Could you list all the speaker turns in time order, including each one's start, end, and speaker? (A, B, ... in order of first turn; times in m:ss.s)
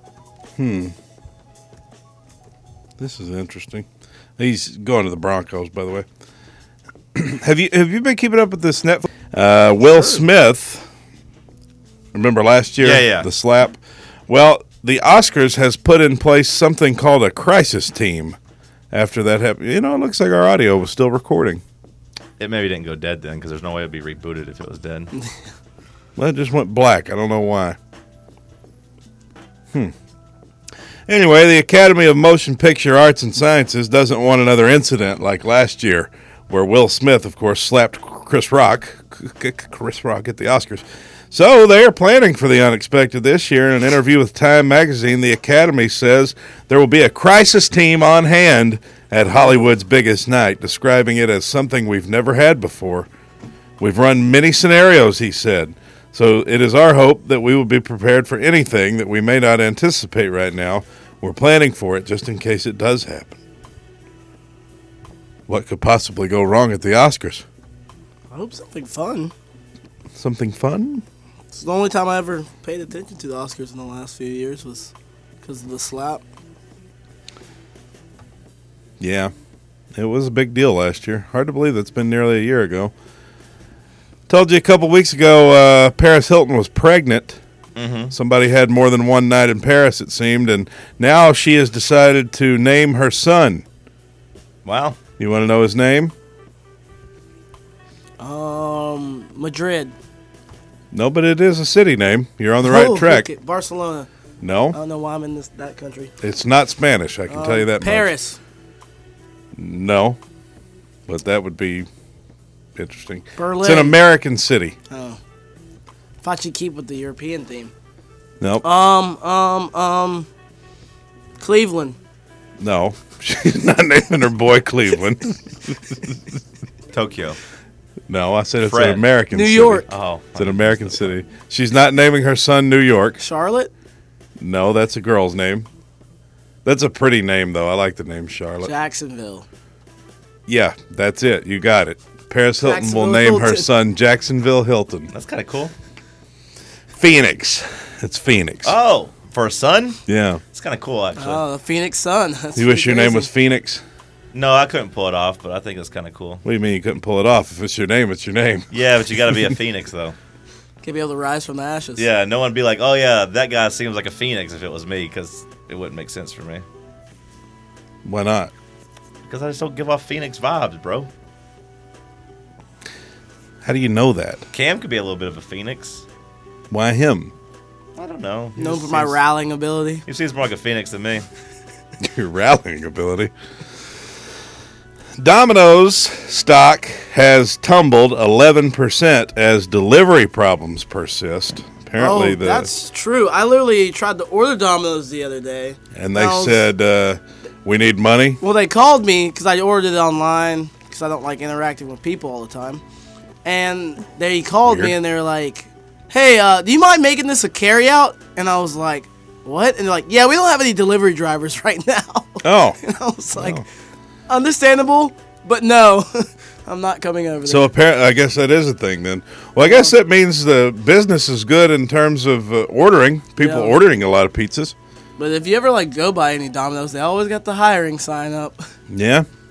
0:00.6-0:00.9 A
0:03.0-0:03.8 A
0:04.4-0:06.0 A
0:07.1-0:10.9 A
0:12.1-0:18.4 A
0:12.8-0:13.3 B
0:18.9-0:21.6 A
0:22.4-0:25.1 B
0:26.2-0:27.8 A
0:31.1-0:53.1 A
0:53.8-1:03.4 A
1:05.5-1:07.4 A
1:08.3-1:09.3 C
1:10.2-1:11.0 A
1:11.5-1:16.2 C
1:19.0-1:19.3 A
1:19.9-1:22.9 A
1:24.3-1:27.4 A
1:27.8-1:28.1 B
1:28.1-1:33.6 A
1:34.6-1:35.0 B
1:35.2-1:36.1 A
1:38.2-1:39.9 C
1:40.9-1:43.3 A
1:42.6-1:44.1 C
1:44.4-1:44.8 A
1:44.7-1:46.1 C
1:46.2-1:48.1 A
1:47.3-1:48.4 C
1:49.6-1:50.2 A
1:51.1-1:51.9 A
1:52.8-1:54.8 A
1:53.4-1:54.0 C
1:54.9-1:55.2 C
1:56.2-1:57.7 C
1:58.4-1:58.6 A
1:58.6-2:00.3 C
2:01.4-2:02.0 C
2:02.6-2:06.2 A
2:06.9-2:07.4 B
2:08.1-2:13.2 A
2:08.6-2:09.0 B
2:09.3-2:09.8 C
2:09.9-2:11.1 B
2:13.2-2:13.7 C
2:14.4-2:15.7 A
2:16.6-2:18.7 A
2:18.6-2:19.4 C
2:20.5-2:25.1 A
2:22.6-2:23.7 C
2:25.1-2:25.7 B
2:26.9-2:28.7 A
2:28.6-2:30.0 B
2:30.1-2:30.4 A
2:30.5-2:31.4 B
2:31.2-2:33.3 C
2:32.6-2:33.8 A
2:34.3-2:36.4 B
2:36.4-2:38.7 A
2:38.7-2:40.1 B
2:40.8-2:42.0 C
2:42.0-2:46.6 B
2:48.0-2:48.5 A
2:49.3-2:51.1 B
2:53.6-2:54.4 A
2:54.5-2:56.0 B
2:56.7-2:57.3 A
2:58.0-2:59.1 B
2:58.6-3:00.0 C
3:00.0-3:01.2 B
3:02.0-3:03.3 A
3:05.2-3:12.7 A
3:11.9-3:16.7 C
3:15.9-3:18.4 A
3:18.4-3:22.8 C
3:23.4-3:33.6 C
3:24.6-3:24.9 A
3:32.4-3:32.8 A
3:33.3-3:33.6 A
3:34.3-3:37.7 C
3:37.4-3:44.7 A
3:39.6-3:39.9 C
3:43.4-3:43.8 C
3:45.2-3:48.6 C
3:48.9-3:49.2 A